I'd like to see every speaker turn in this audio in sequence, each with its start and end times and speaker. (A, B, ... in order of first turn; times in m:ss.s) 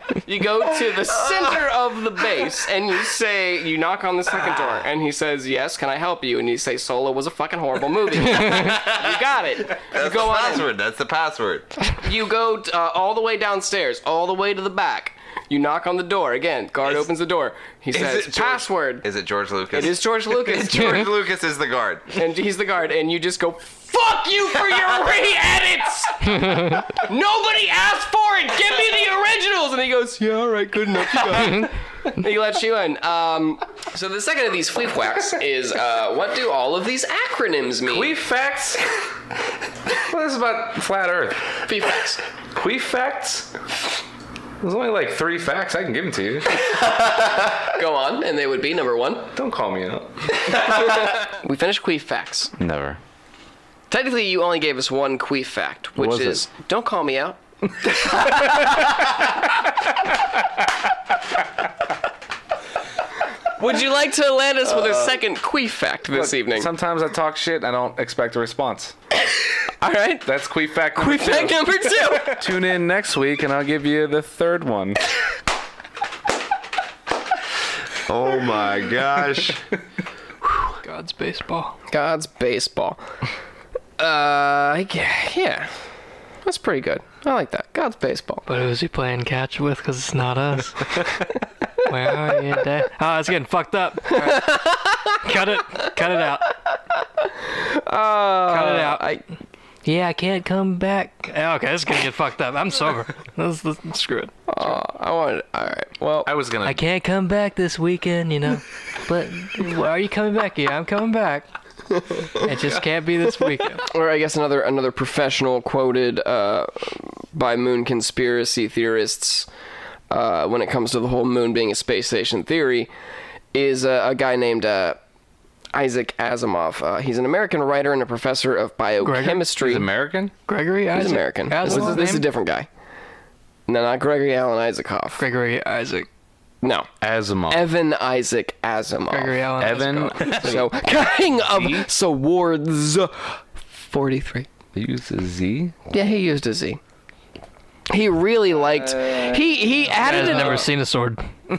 0:00.2-0:10.7 A
0:01.2-0:01.6 B
0:09.8-0:11.7 B
0:12.0-0:19.0 A
0:17.9-0:22.1 B
0:19.7-0:21.1 A
0:22.1-0:38.1 A
0:37.8-0:38.8 C
0:40.1-0:41.5 C
0:41.7-0:42.2 A
0:42.5-0:43.5 C
0:44.6-0:46.6 C
0:47.6-0:49.3 A
0:49.3-0:50.1 C
0:50.5-0:52.5 A
0:52.6-0:53.0 C
0:53.9-0:57.4 A
0:56.0-0:56.4 C
1:03.6-1:06.7 A
1:04.6-1:05.1 C
1:06.1-1:08.9 C
1:09.8-1:12.5 A
1:10.2-1:15.0 C
1:18.1-1:19.6 B
1:20.8-1:21.8 D
1:21.9-1:23.0 A
1:24.0-1:25.7 A
1:26.4-1:28.4 A
1:28.4-1:31.2 D
1:31.8-1:34.6 D
1:34.1-1:35.2 A
1:35.2-1:36.5 D
1:37.2-1:39.2 A
1:38.5-1:39.0 D
1:39.8-1:44.4 D
1:44.5-1:46.3 A
1:46.0-1:46.8 C
1:46.6-1:51.5 D
1:52.4-1:53.8 D
1:53.8-1:59.5 A
2:00.1-2:02.9 A
2:03.5-2:05.0 A
2:05.7-2:09.9 A
2:09.0-2:09.5 D
2:09.6-2:10.3 C
2:10.5-2:12.2 D
2:10.9-2:12.7 A
2:11.6-2:12.3 C
2:13.7-2:15.2 A
2:15.2-2:16.1 D
2:16.6-2:16.9 A
2:17.0-2:17.7 C
2:17.5-2:19.4 A
2:19.1-2:20.6 D
2:19.6-2:20.7 C
2:20.3-2:24.5 A
2:21.3-2:21.9 C
2:24.7-2:25.8 C
2:25.9-2:26.8 A
2:27.9-2:30.7 A
2:28.6-2:30.6 C
2:30.0-2:31.3 D